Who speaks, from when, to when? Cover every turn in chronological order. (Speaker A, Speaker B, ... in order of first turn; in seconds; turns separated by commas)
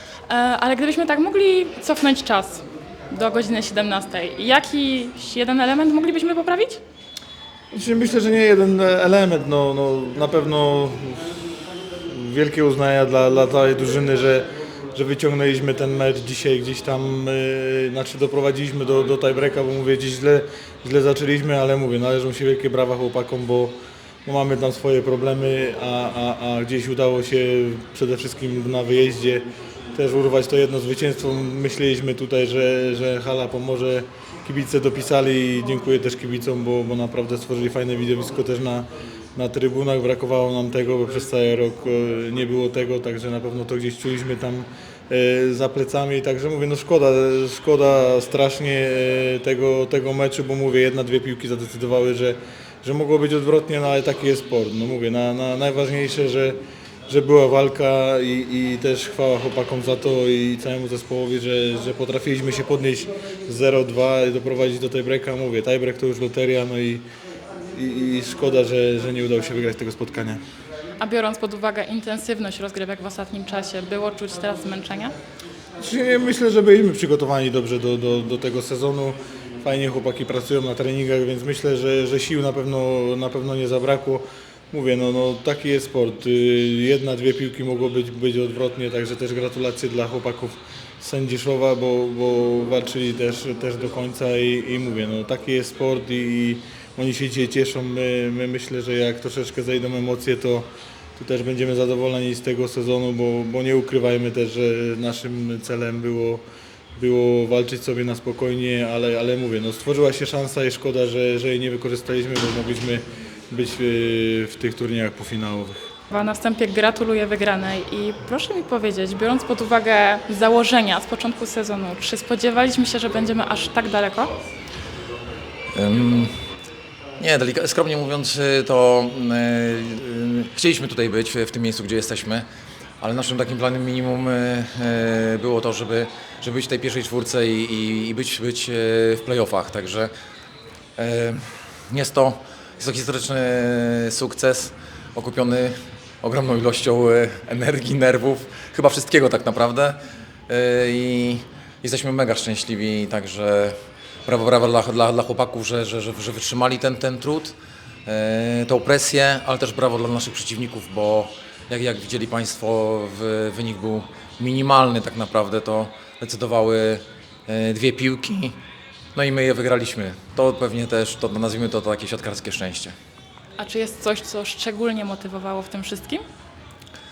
Speaker A: 0.3-6.8, Speaker B: 7.7-11.2, Speaker B: 12.1-67.0, Speaker B: 67.7-70.4, Speaker A: 71.0-75.1, Speaker B: 75.8-106.4, Speaker B: 107.0-115.9, Speaker A: 116.1-124.3, Speaker C: 125.7-126.3, Speaker C: 127.2-132.4, Speaker C: 133.0-140.1, Speaker C: 141.0-153.7, Speaker C: 154.2-168.6, Speaker C: 169.1-172.9, Speaker A: 173.6-176.2